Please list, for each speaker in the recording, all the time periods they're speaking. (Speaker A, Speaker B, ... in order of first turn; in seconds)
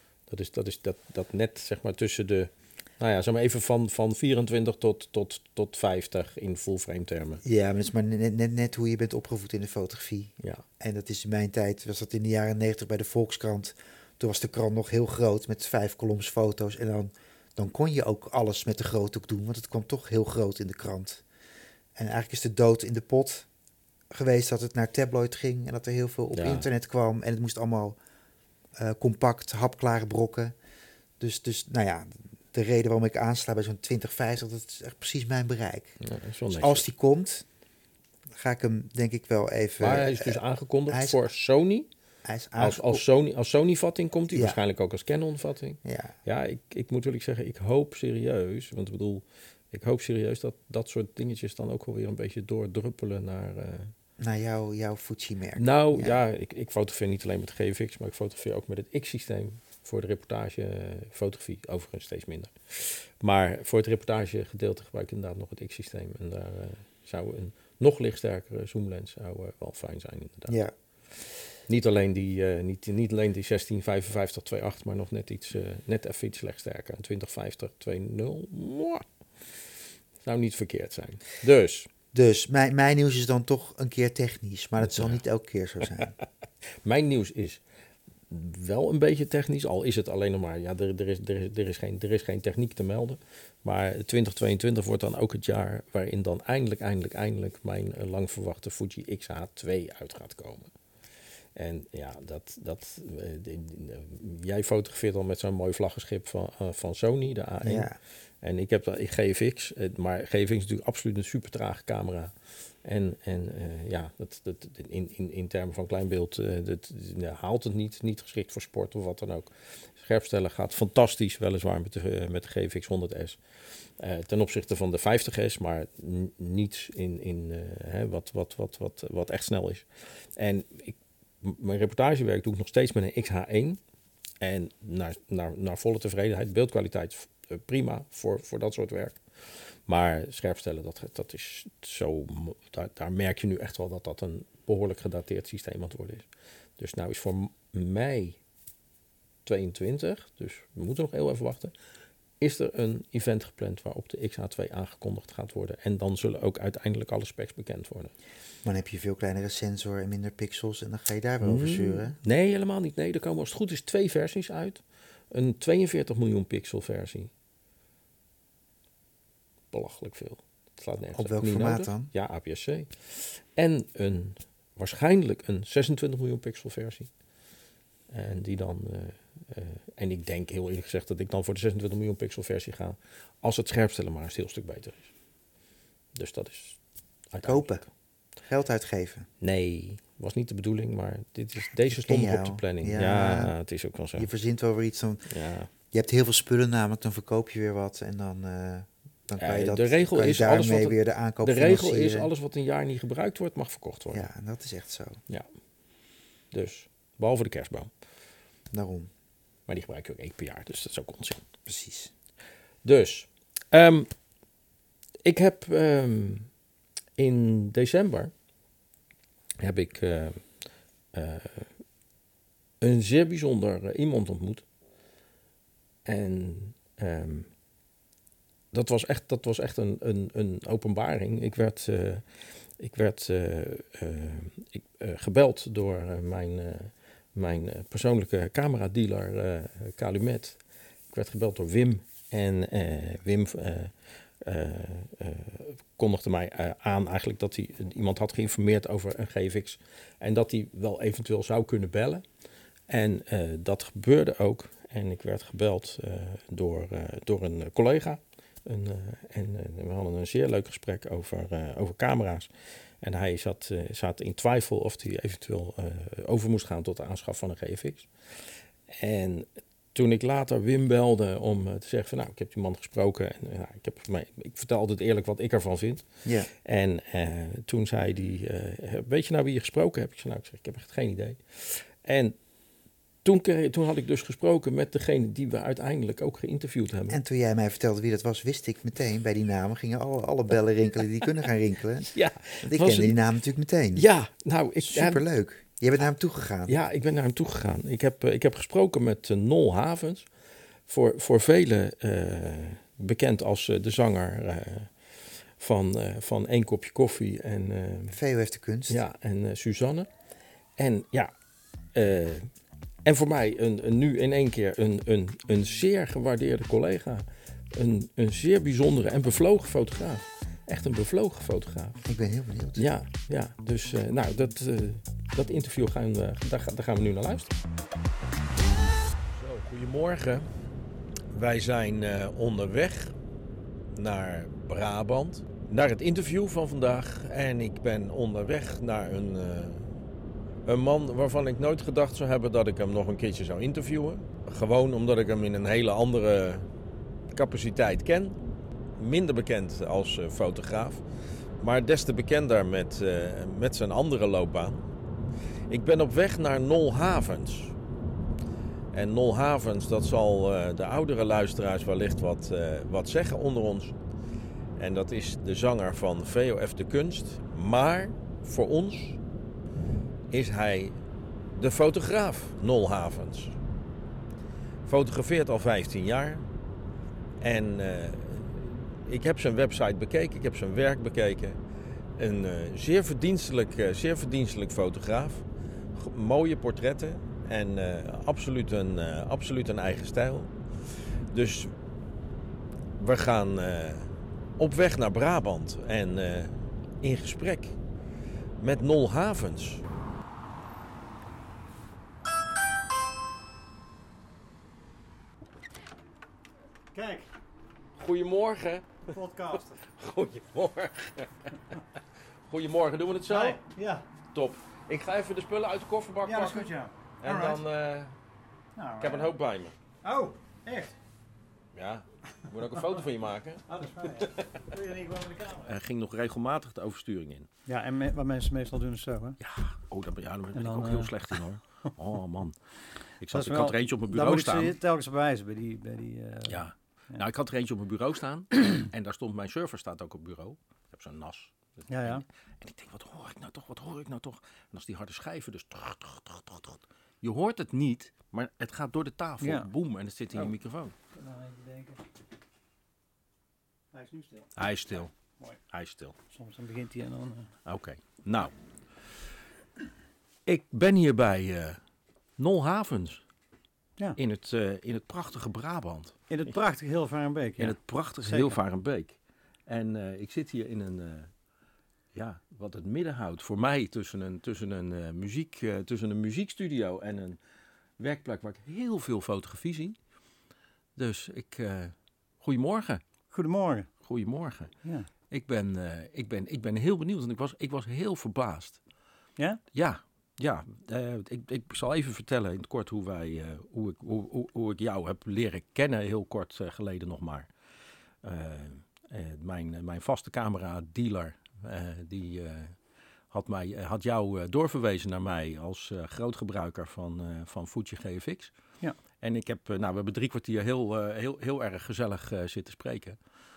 Speaker A: 0.3-7.4, 26.3-26.7, 36.0-36.8, 39.8-41.9, 42.6-53.9, 55.6-70.6, 71.7-79.6, 80.2-81.9, 84.8-85.2, 86.8-87.6, 88.3-100.7, 101.5-133.8, 134.4-148.4, 149.4-151.7, 152.4-158.1, 161.4-167.3, 169.7-177.1, 178.1-185.1, 186.2-187.9, 189.4-194.3, 195.3-195.7, 199.4-204.3, 205.3-205.5, 206.5-207.9, 209.7-211.4, 212.8-214.1, 215.2-216.5, 217.2-218.3, 219.6-220.5, 221.1-221.8, 222.8-224.6, 226.0-227.5, 228.7-252.2, 252.9-262.5, 263.0-282.4, 283.2-287.2, 292.1-293.1, 293.9-295.2, 296.7-300.3, 300.9-308.2, 308.9-310.1, 310.8-311.3, 311.9-312.5, 313.0-322.0, 322.8-327.6, 329.3-330.5, 331.3-333.2, 333.9-339.9, 340.6-346.7, 347.3-348.4, 348.9-354.9, 355.7-357.8, 358.9-364.0, 364.8-369.2, 370.3-371.0, 371.5-373.6, 374.8-376.5, 377.4-381.6, 382.1-391.7, 393.0-397.8, 398.6-399.8, 408.0-411.8, 412.4-413.6, 414.3-418.1, 419.0-419.7, 421.7-424.7, 425.6-427.5, 429.4-434.8, 436.5-450.9, 454.6-455.1, 455.7-456.1, 457.6-458.5, 460.4-461.8, 462.4-463.2, 464.2-466.3, 467.6-471.3, 472.1-477.4, 478.0-480.0, 480.9-483.0, 484.0-484.7, 485.3-488.8, 489.7-497.5, 498.2-508.6, 509.2-513.2
Speaker B: 7.4-21.2, 21.9-23.5, 24.1-28.0, 28.8-30.5, 31.2-36.0, 36.5-37.5, 38.3-41.2, 42.2-43.0, 44.3-44.6, 45.8-46.1, 54.2-56.2, 70.5-70.7, 82.1-86.1, 107.6-108.0, 158.6-162.2, 171.1-172.1, 187.4-189.3, 191.8-193.6, 194.2-202.3, 204.1-205.2, 208.7-209.1, 211.7-212.1, 287.1-294.1, 294.8-296.8, 308.1-309.0, 322.0-322.9
Speaker C: 406.9-407.3, 409.1-409.8, 413.3-414.0, 416.2-417.6, 418.8-419.3, 420.0-420.9, 423.7-425.7, 427.7-429.4, 430.5-431.3, 433.3-437.2, 441.9-442.2, 449.4-449.7, 451.1-452.0, 453.9-455.6, 456.3-457.5, 466.3-468.6, 483.3-484.1, 484.8-485.1, 489.4-489.6